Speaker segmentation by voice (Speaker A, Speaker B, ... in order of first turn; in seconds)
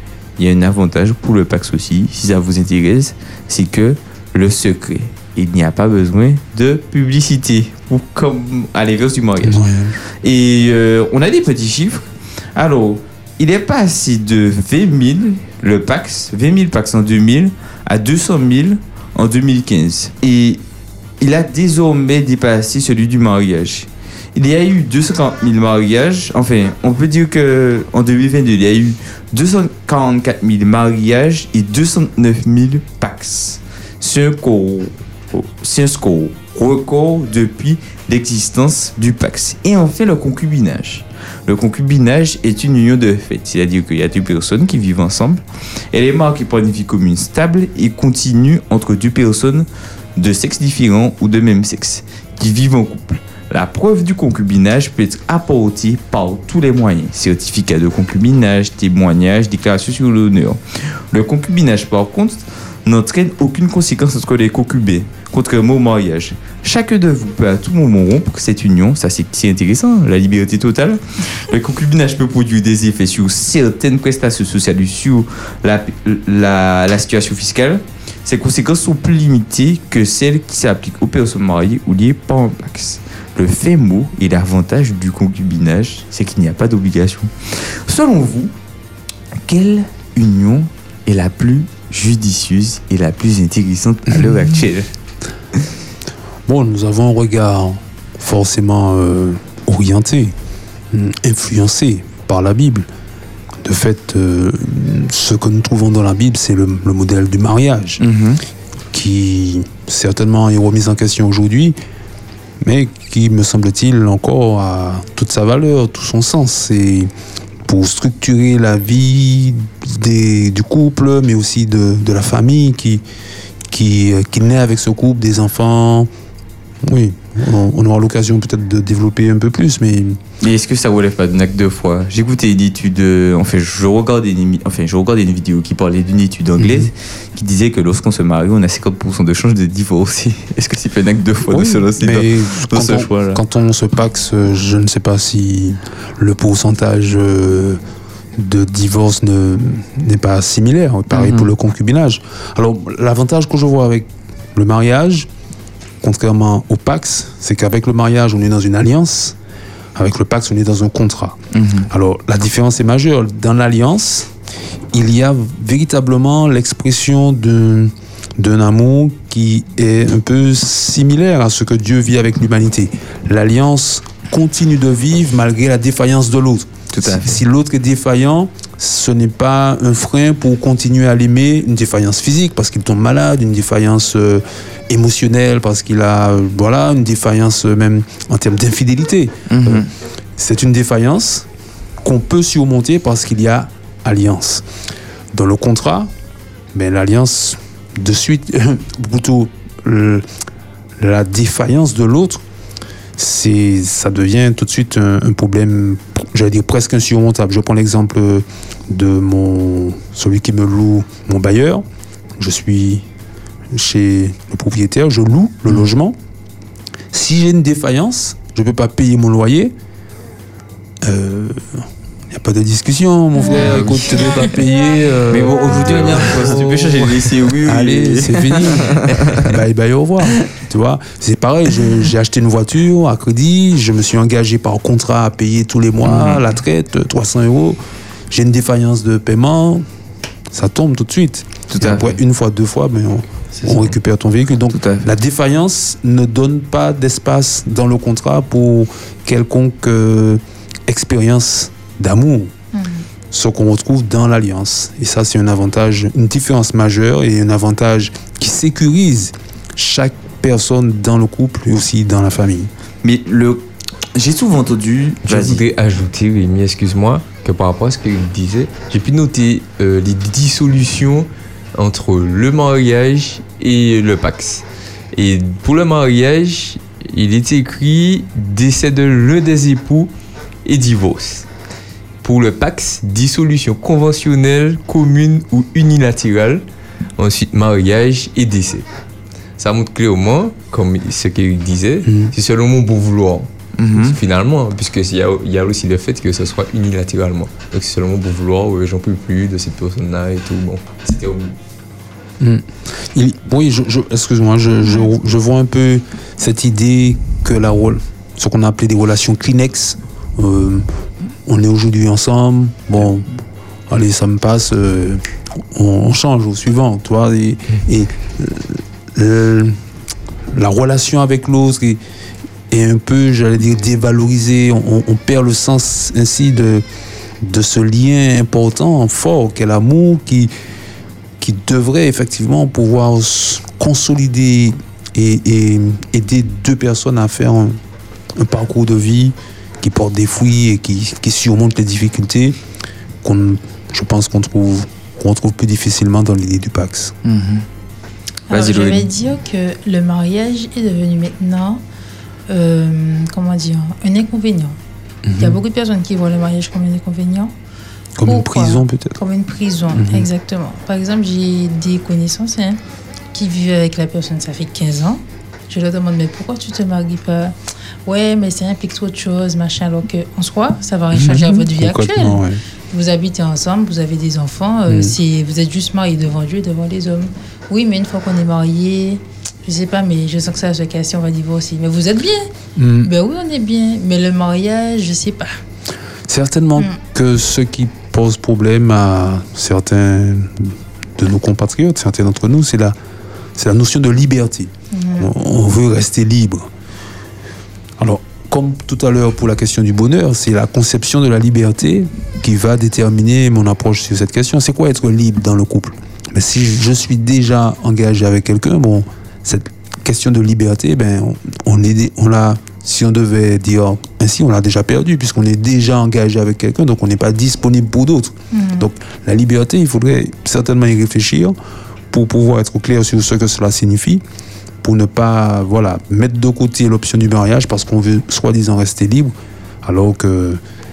Speaker A: 0.4-9.6, 10.2-20.6, 21.2-88.5, 89.5-94.9, 108.0-108.4, 130.4-143.4, 151.1-151.5, 161.5-161.9, 176.9-177.4, 189.5-189.9, 223.7-224.2, 225.3-229.5, 236.0-236.4, 241.7-242.2, 243.6-243.9, 244.7-245.1, 263.0-265.6, 293.8-294.2, 347.2-347.6, 348.5-349.1
Speaker B: 9.4-9.9, 96.5-100.3, 100.9-102.9, 103.6-108.0, 108.9-111.8, 112.6-117.1, 117.6-123.0, 123.7-126.1, 126.8-130.2, 136.6-136.9, 141.5-147.8, 148.3-155.3, 156.0-159.3, 159.9-161.4, 161.9-164.3, 164.9-189.8, 190.4-191.5, 192.0-194.7, 195.3-196.1, 196.7-200.2, 201.0-202.4, 203.2-211.8, 212.4-213.0, 213.7-216.2, 217.1-219.7, 221.0-237.8, 238.3-239.8, 240.5-252.5, 253.3-262.7, 292.0-292.3, 302.4-310.8, 311.4-313.3, 313.9-315.2, 315.7-319.8, 320.5-322.0, 322.7-326.8, 327.4-330.5, 331.4-337.8, 338.4-342.6, 343.2-347.1, 355.2-355.6, 358.2-359.2, 359.9-360.3, 371.1-372.6, 374.9-375.2, 382.8-383.1, 386.3-392.9, 393.6-396.7, 398.0-421.6, 422.1-424.2, 424.8-430.6
Speaker C: 223.4-224.4, 252.7-253.0, 348.5-351.8, 352.5-354.8, 355.4-357.5, 358.2-362.8, 363.3-382.5, 383.0-385.6, 394.9-395.3, 418.5-418.9
Speaker D: 265.2-280.1, 280.6-281.5, 282.2-286.6, 287.2-288.8, 289.6-301.5